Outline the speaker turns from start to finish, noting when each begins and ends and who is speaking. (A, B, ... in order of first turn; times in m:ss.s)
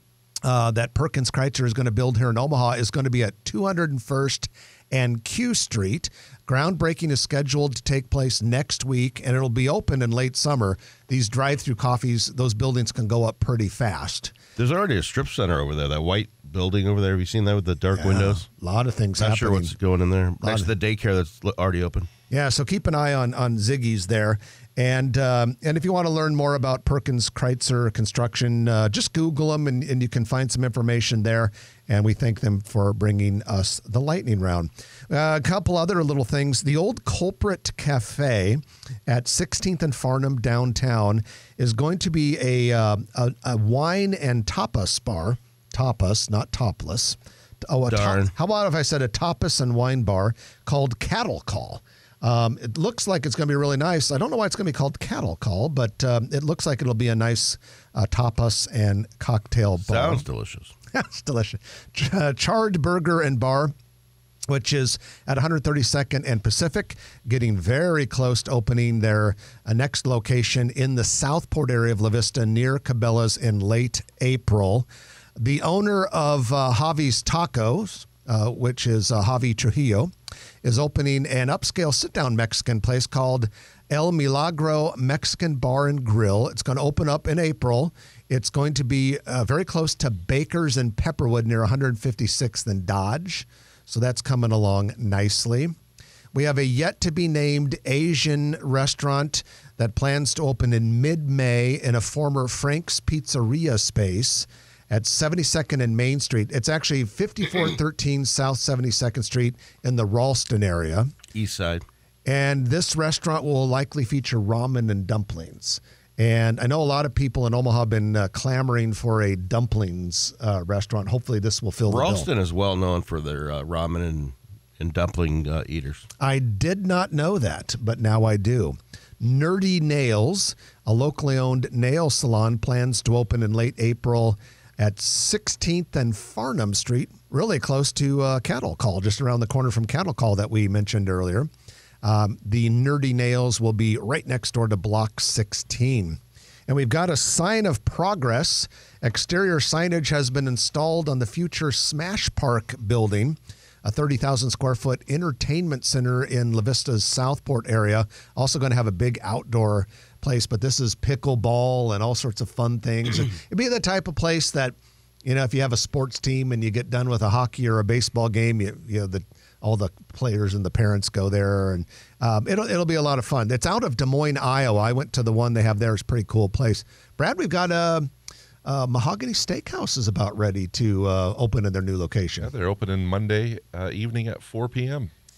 0:00.4-0:14.3 A
0:14.6-0:18.5 B
0:17.9-0:19.7 A
0:19.2-0:22.1 B
0:20.4-0:20.7 A
0:22.3-1:00.2 A
0:47.9-0:48.3 B
0:59.8-1:00.7 B
1:00.9-1:03.7 A
1:04.5-1:20.1 A
1:20.6-1:35.7 A
1:36.3-1:51.1 A
1:51.3-1:51.8 B
1:52.2-2:02.3 A
2:01.9-2:06.1 B
2:06.2-2:21.5 A
2:22.0-2:44.7 A
2:45.2-2:58.1 A
2:58.6-3:02.5 A
3:02.4-3:05.1 C